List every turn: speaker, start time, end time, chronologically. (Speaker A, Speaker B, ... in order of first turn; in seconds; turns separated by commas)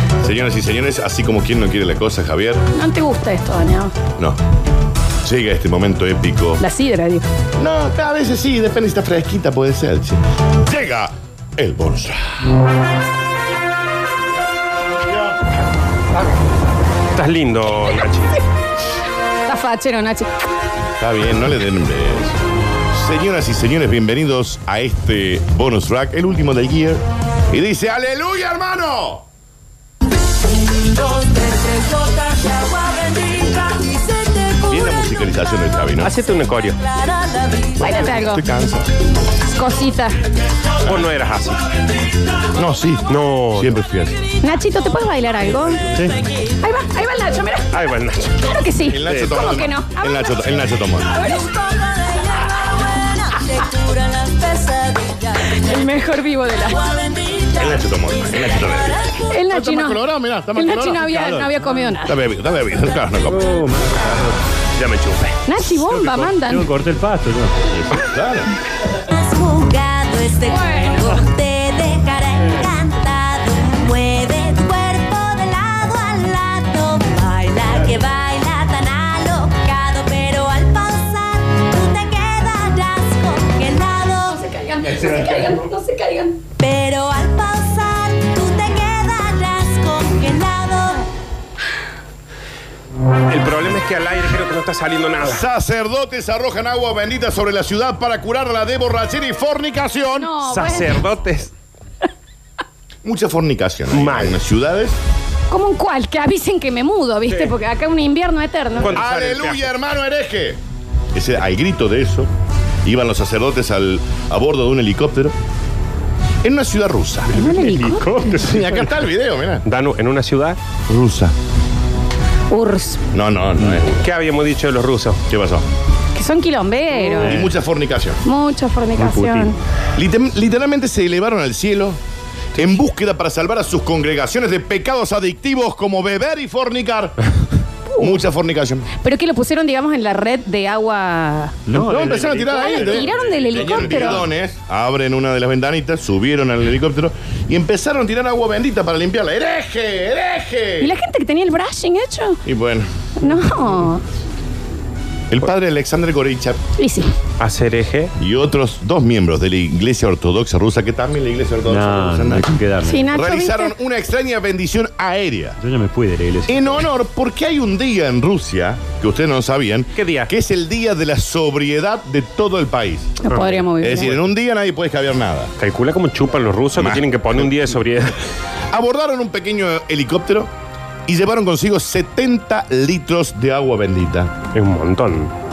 Speaker A: 0.2-2.6, Speaker B: 2.8-4.0, Speaker A: 5.2-6.6, Speaker B: 6.6-7.2, Speaker A: 7.6-12.4, Speaker A: 15.1-15.3, Speaker B: 19.4-20.3, Speaker A: 21.0-22.3, Speaker A: 22.9-29.2, Speaker C: 31.1-34.8, Speaker A: 34.7-36.1, Speaker D: 36.0-36.8, Speaker C: 37.2-37.9, Speaker B: 37.8-38.5, Speaker A: 38.4-38.8, Speaker B: 39.4-40.2, Speaker D: 40.8-41.3, Speaker A: 42.5-44.2, Speaker D: 43.1-43.6, Speaker B: 44.4-50.1, Speaker D: 47.7-48.3, Speaker A: 48.9-51.1, Speaker B: 51.1-51.5, Speaker C: 51.2-55.6, Speaker B: 55.5-56.8, Speaker C: 56.9-59.2, Speaker A: 57.6-61.1, Speaker B: 59.2-60.0, Speaker B: 60.5-62.2, Speaker E: 60.9-61.6, Speaker A: 62.0-64.3, Speaker E: 63.3-64.4, Speaker D: 64.8-65.3, Speaker B: 65.5-66.7, Speaker E: 65.7-67.7, Speaker A: 67.9-68.5, Speaker C: 69.0-84.4, Speaker B: 70.5-71.2, Speaker B: 84.2-86.4, Speaker C: 86.6-91.1, Speaker D: 93.3-95.5, Speaker A: 95.2-100.4, Speaker B: 100.1-101.0, Speaker D: 100.5-101.5, Speaker A: 103.0-105.0, Speaker D: 103.9-104.4, Speaker B: 105.5-109.0, Speaker D: 108.8-109.7, Speaker A: 108.9-110.6, Speaker A: 111.1-112.3, Speaker A: 112.8-115.3, Speaker A: 116.4-117.5, Speaker B: 117.3-118.9, Speaker A: 118.3-119.6, Speaker D: 119.7-120.6, Speaker A: 120.9-121.3, Speaker B: 122.5-123.0, Speaker A: 123.1-124.0, Speaker D: 124.0-125.2, Speaker A: 125.3-125.7, Speaker B: 126.2-127.5, Speaker A: 127.2-128.2, Speaker B: 128.2-129.6, Speaker E: 129.0-129.5, Speaker A: 129.9-132.0, Speaker A: 132.6-137.2, Speaker B: 137.9-138.2, Speaker A: 138.0-138.9, Speaker B: 139.0-141.7, Speaker E: 141.7-144.0, Speaker A: 141.7-150.9, Speaker B: 142.5-144.3, Speaker B: 150.8-152.4, Speaker A: 152.4-152.9, Speaker B: 153.2-154.0, Speaker A: 155.3-156.6, Speaker B: 156.8-157.1, Speaker D: 157.4-158.1, Speaker A: 158.2-162.5, Speaker E: 161.7-163.1, Speaker B: 162.8-163.7, Speaker A: 163.1-165.6, Speaker E: 165.6-166.9, Speaker A: 166.5-173.2, Speaker D: 169.9-170.3, Speaker B: 173.2-174.2, Speaker A: 173.8-175.5, Speaker D: 175.6-177.7, Speaker A: 176.8-177.5, Speaker A: 178.7-180.5, Speaker A: 181.1-184.3, Speaker D: 184.5-185.3